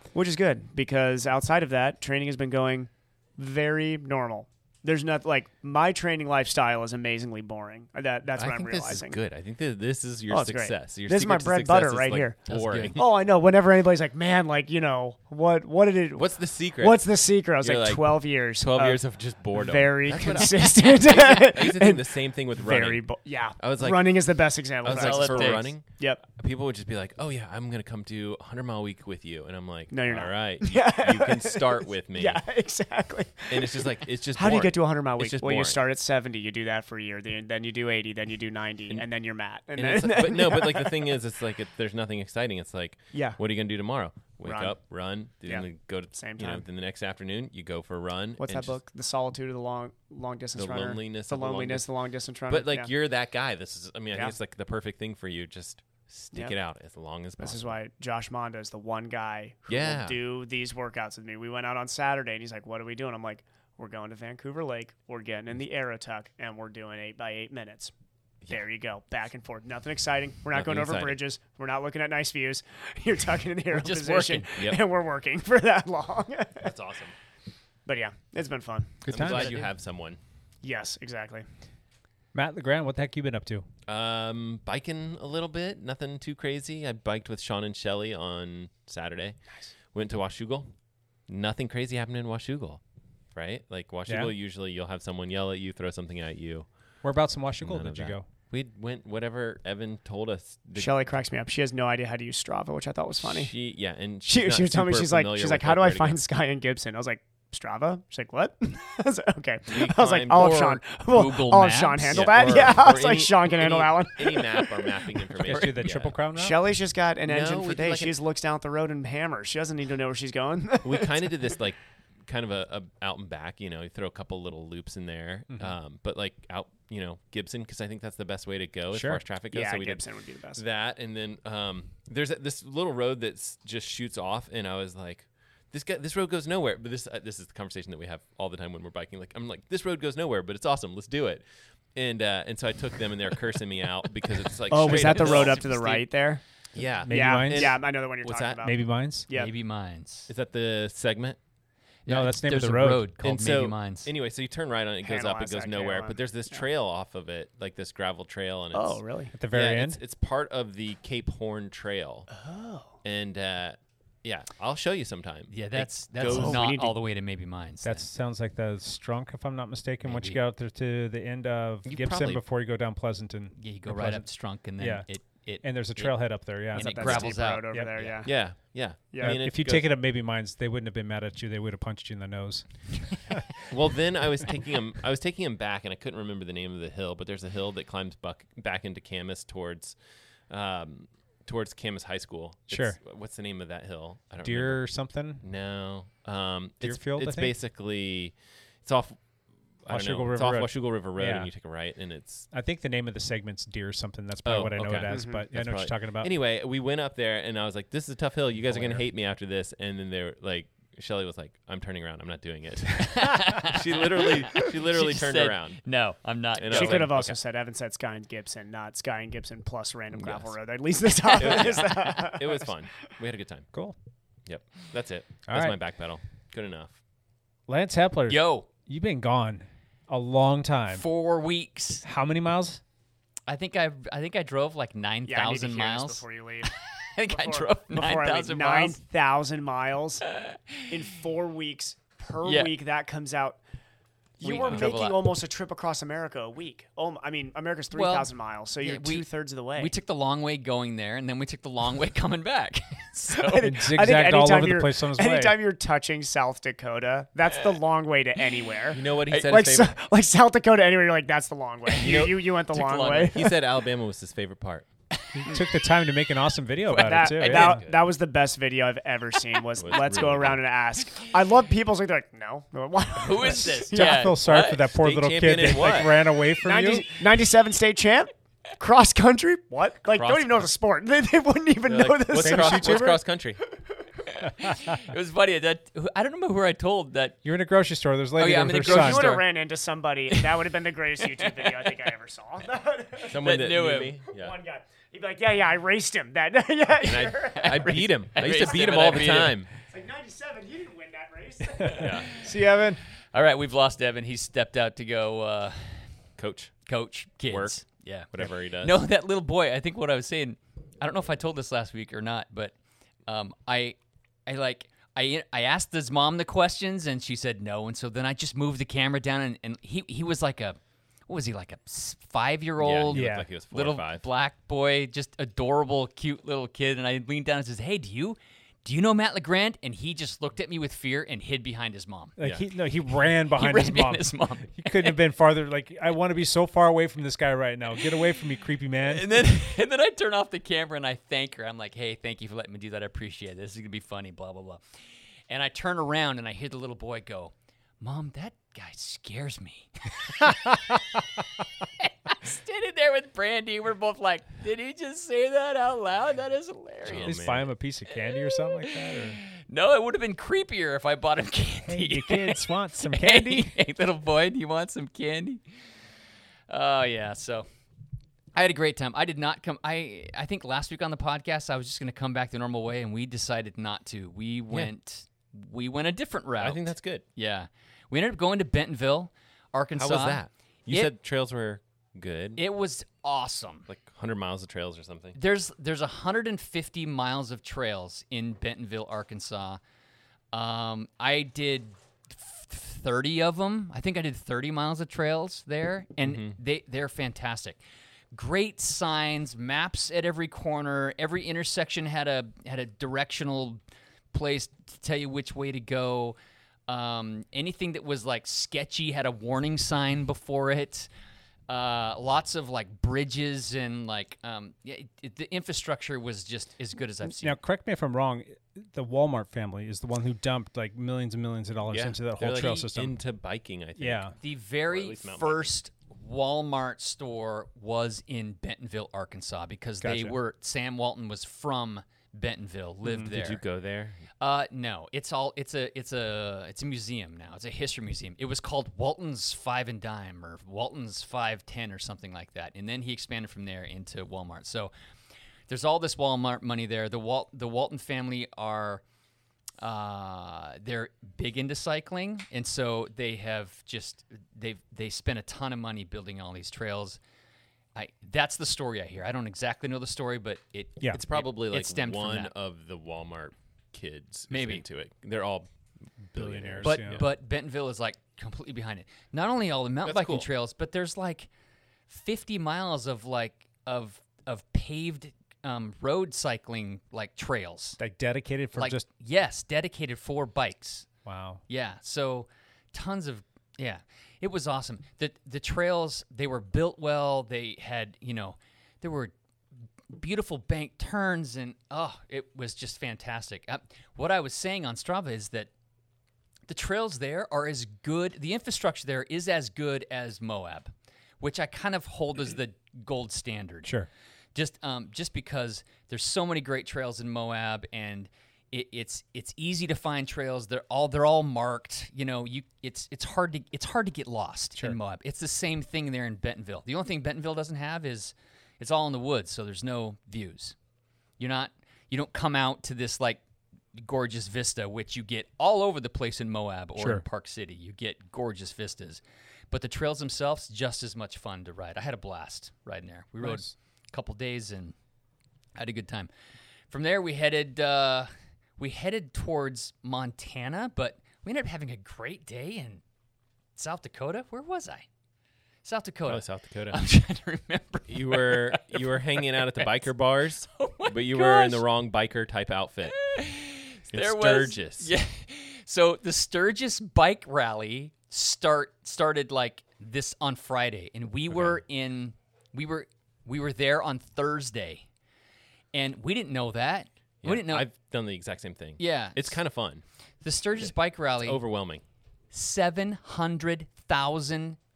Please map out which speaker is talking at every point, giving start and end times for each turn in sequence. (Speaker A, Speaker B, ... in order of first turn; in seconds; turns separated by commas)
Speaker A: 0.1-9.2, Speaker B: 8.4-13.0, Speaker A: 10.3-12.4, Speaker C: 12.5-13.0, Speaker A: 13.0-19.0, Speaker B: 16.1-17.1, Speaker B: 17.6-32.4, Speaker A: 19.5-26.2, Speaker C: 24.9-25.7, Speaker A: 29.9-41.2, Speaker B: 33.5-35.8, Speaker B: 39.8-48.8, Speaker A: 43.1-43.4, Speaker A: 44.4-44.8, Speaker A: 45.5-46.6, Speaker A: 48.4-52.9, Speaker B: 50.5-51.9, Speaker B: 52.5-57.8, Speaker A: 57.4-67.9, Speaker B: 59.7-60.2, Speaker A: 68.5-76.7, Speaker B: 70.5-71.2, Speaker C: 73.7-74.5, Speaker B: 76.6-77.2, Speaker A: 77.9-79.0, Speaker D: 79.0-79.6, Speaker B: 79.1-80.2, Speaker C: 79.2-79.7, Speaker A: 80.6-81.5, Speaker D: 82.3-83.7, Speaker B: 83.9-89.4, Speaker B: 89.9-90.7, Speaker B: 91.3-92.8, Speaker B: 93.3-96.7, Speaker D: 94.1-94.3, Speaker D: 97.0-98.2, Speaker B: 97.6-101.1, Speaker A: 100.8-103.5, Speaker B: 103.2-106.2, Speaker A: 104.3-115.0, Speaker B: 109.7-110.8, Speaker C: 111.1-112.5, Speaker B: 112.1-116.2, Speaker D: 115.4-116.7, Speaker C: 115.6-115.8, Speaker A: 116.3-121.5, Speaker B: 117.3-118.2, Speaker B: 120.8-146.1, Speaker D: 125.5-125.8, Speaker D: 128.9-129.2, Speaker A: 129.5-130.6, Speaker A: 144.7-146.4, Speaker D: 144.9-145.3, Speaker B: 146.7-148.7, Speaker D: 147.1-147.8, Speaker A: 147.1-149.5, Speaker D: 148.6-149.3, Speaker C: 149.3-150.3, Speaker B: 150.3-151.4, Speaker C: 152.1-154.1, Speaker D: 152.1-153.1, Speaker B: 153.2-162.3, Speaker A: 155.0-156.6, Speaker A: 158.7-159.3, Speaker D: 159.3-160.0, Speaker A: 162.3-162.9, Speaker B: 163.0-166.7, Speaker C: 165.5-168.1, Speaker A: 166.3-167.0, Speaker D: 167.8-174.3, Speaker C: 170.0-170.4, Speaker B: 171.8-172.4, Speaker C: 173.6-178.2, Speaker D: 174.8-175.1, Speaker D: 175.6-177.9, Speaker A: 176.7-178.4, Speaker B: 178.2-179.9, Speaker A: 179.1-179.4, Speaker D: 179.2-182.7, Speaker B: 183.7-190.0, Speaker B: 190.5-194.9, Speaker D: 192.7-193.0, Speaker D: 194.4-195.4, Speaker B: 195.4-199.2, Speaker D: 196.8-197.5, Speaker B: 199.8-202.5, Speaker D: 199.9-201.5, Speaker D: 202.5-206.3, Speaker B: 204.4-215.8, Speaker A: 205.1-205.4, Speaker D: 208.7-209.1, Speaker C: 213.0-217.2, Speaker B: 216.6-217.4, Speaker A: 216.7-222.7, Speaker B: 220.1-220.5, Speaker C: 221.2-221.7, Speaker B: 221.4-223.7, Speaker B: 224.5-227.0, Speaker D: 225.5-225.8, Speaker D: 227.7-231.1, Speaker C: 228.3-228.7, Speaker C: 230.9-232.1, Speaker D: 232.0-232.8, Speaker C: 233.5-236.2, Speaker A: 235.3-236.7, Speaker C: 236.8-239.0, Speaker A: 237.3-240.3, Speaker C: 240.3-240.8, Speaker A: 240.9-243.6, Speaker C: 242.4-242.7, Speaker A: 244.4-249.9, Speaker C: 244.4-245.3, Speaker B: 244.5-244.9, Speaker C: 247.9-253.8, Speaker A: 253.4-263.6, Speaker D: 253.6-255.6, Speaker B: 258.9-260.0, Speaker B: 262.0-264.9, Speaker C: 262.7-263.4, Speaker D: 265.3-267.8, Speaker A: 266.9-274.3, Speaker C: 267.4-267.7, Speaker B: 267.4-268.0, Speaker B: 269.8-270.6, Speaker C: 273.2-274.8, Speaker D: 273.5-277.1, Speaker B: 275.0-276.3, Speaker A: 276.6-283.1, Speaker B: 280.1-280.7, Speaker B: 281.9-283.6, Speaker D: 282.3-283.2, Speaker C: 284.3-287.4, Speaker D: 287.4-289.3, Speaker C: 288.4-289.4, Speaker A: 288.8-293.4, Speaker C: 291.3-292.0, Speaker B: 293.2-294.6, Speaker C: 293.3-294.2, Speaker A: 294.3-298.0, Speaker B: 297.0-299.7, Speaker C: 297.5-299.6, Speaker A: 299.8-302.7, Speaker D: 301.8-303.0, Speaker B: 301.9-302.3, Speaker C: 303.3-306.0, Speaker B: 306.4-306.8, Speaker C: 306.9-312.7, Speaker B: 307.5-307.8, Speaker B: 308.3-309.0, Speaker C: 313.3-332.4, Speaker B: 322.8-324.3, Speaker D: 323.1-323.5, Speaker D: 332.4-339.3, Speaker C: 333.5-335.2, Speaker C: 339.0-344.8, Speaker C: 345.5-351.0, Speaker C: 352.0-357.4, Speaker B: 357.1-357.7, Speaker D: 357.2-359.4, Speaker C: 358.3-365.6, Speaker D: 361.9-363.7, Speaker C: 366.7-367.7, Speaker C: 368.5-381.1, Speaker B: 376.6-377.2, Speaker B: 380.0-382.6, Speaker C: 382.6-383.9, Speaker B: 383.9-385.4, Speaker C: 385.4-389.8, Speaker C: 390.5-397.8, Speaker B: 396.2-396.6, Speaker C: 398.3-403.8, Speaker C: 404.3-406.4, Speaker C: 406.9-411.1, Speaker C: 411.7-417.6, Speaker D: 417.3-423.2, Speaker B: 421.9-425.7, Speaker D: 424.0-424.3, Speaker C: 424.4-433.6, Speaker D: 430.0-430.4, Speaker B: 433.2-434.3, Speaker C: 434.4-444.9, Speaker C: 445.7-449.0, Speaker C: 449.8-457.2, Speaker C: 457.9-462.5, Speaker B: 461.1-465.7, Speaker C: 464.5-464.8, Speaker B: 466.3-467.3, Speaker D: 466.4-467.3, Speaker C: 466.8-471.5, Speaker B: 470.1-470.5, Speaker C: 472.1-478.0, Speaker D: 478.0-479.1, Speaker C: 478.8-481.1, Speaker D: 481.2-481.6, Speaker C: 481.7-489.3, Speaker C: 490.1-495.7, Speaker C: 496.7-503.9, Speaker C: 504.6-520.8, Speaker C: 521.4-523.4, Speaker C: 523.9-535.0, Speaker D: 527.0-527.2, Speaker D: 533.4-533.7, Speaker C: 535.8-536.3, Speaker C: 536.9-543.0, Speaker C: 543.8-545.1, Speaker C: 545.8-550.0, Speaker B: 546.3-547.0, Speaker B: 548.1-553.2, Speaker C: 550.8-551.9, Speaker C: 553.2-565.1, Speaker B: 554.1-555.1, Speaker B: 561.5-561.8, Speaker C: 565.9-567.9, Speaker B: 567.4-570.0, Speaker C: 569.0-569.6, Speaker C: 570.4-571.6, Speaker B: 570.8-572.0, Speaker C: 572.5-574.8